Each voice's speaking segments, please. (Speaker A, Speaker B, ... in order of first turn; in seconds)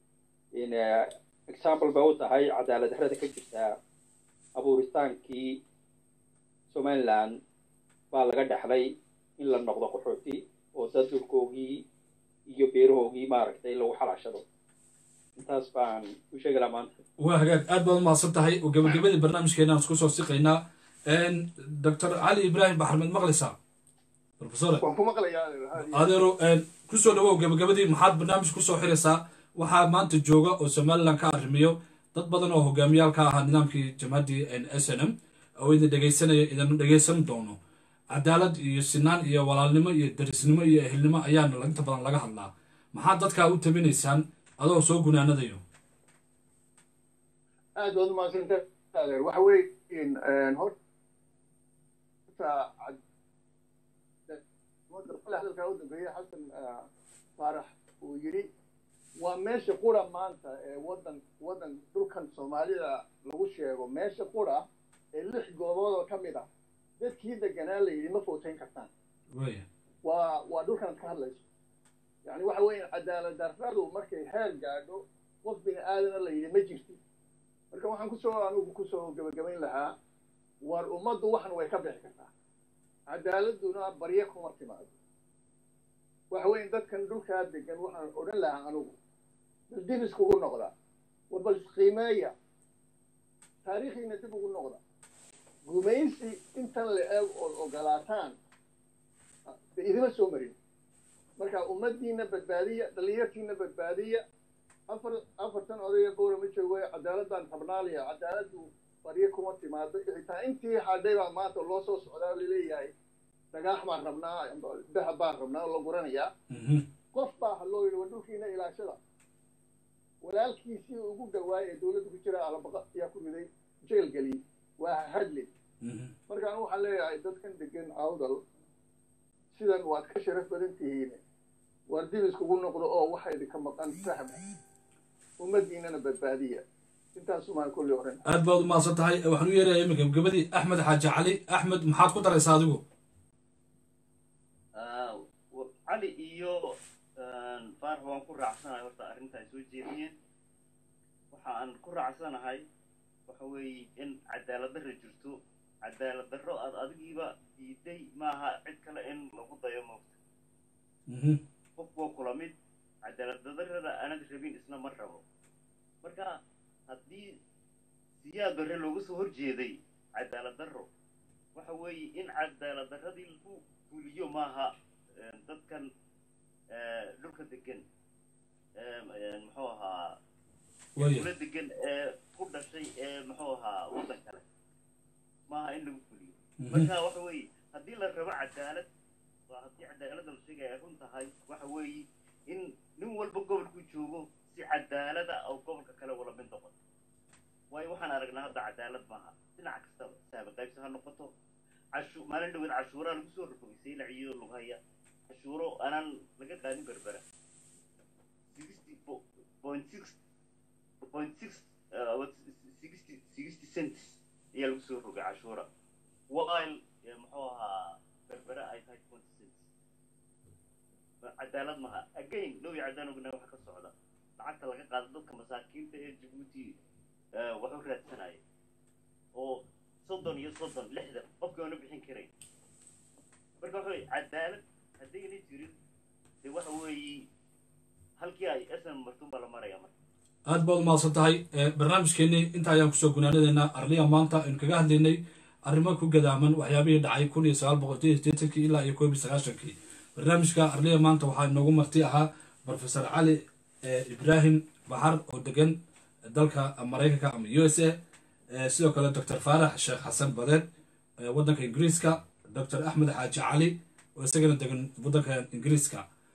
Speaker A: 0.5-3.8, 4.6-5.6, 6.7-7.4, 8.1-11.8, 12.5-14.4, 15.4-16.9
Speaker B: 17.2-23.5, 24.4-24.8, 25.8-37.6, 38.1-45.6, 69.3-69.7, 116.5-116.9, 125.8-126.2, 138.3-142.8, 161.1-161.4, 181.0-181.3, 186.6-186.9, 240.5-255.8, 256.3-258.0, 258.5-260.7, 261.2-266.1
Speaker C: 24.8-26.1, 47.8-50.7, 52.3-53.0, 54.3-56.9, 57.4-58.5, 59.2-66.5, 67.0-68.9, 70.0-71.5, 72.2-77.0, 77.7-80.0, 80.6-82.3, 83.1-84.9, 86.3-89.0, 89.7-90.7, 91.3-92.3, 93.7-94.8, 95.7-98.4, 99.5-100.6, 101.4-104.2, 104.9-112.9, 113.5-116.3, 117.1-119.0, 120.2-125.5, 126.3-128.4, 129.5-131.2, 131.9-134.4, 135.4-136.6, 137.2-138.2
Speaker D: 144.8-150.2, 151.3-152.7, 153.3-160.2, 161.8-162.5, 163.1-165.2, 166.0-166.4, 166.9-167.3, 168.2-170.9, 171.6-175.9, 176.7-177.8, 178.8-180.2, 181.0-184.4, 185.5-188.9, 189.5-196.7, 197.7-201.3, 202.0-204.8, 205.3-207.2, 208.5-210.2, 211.0-215.7, 216.3-219.7, 221.2-226.8, 227.3-228.4, 229.3-232.3, 233.6-235.7, 236.4-237.3, 238.2-239.9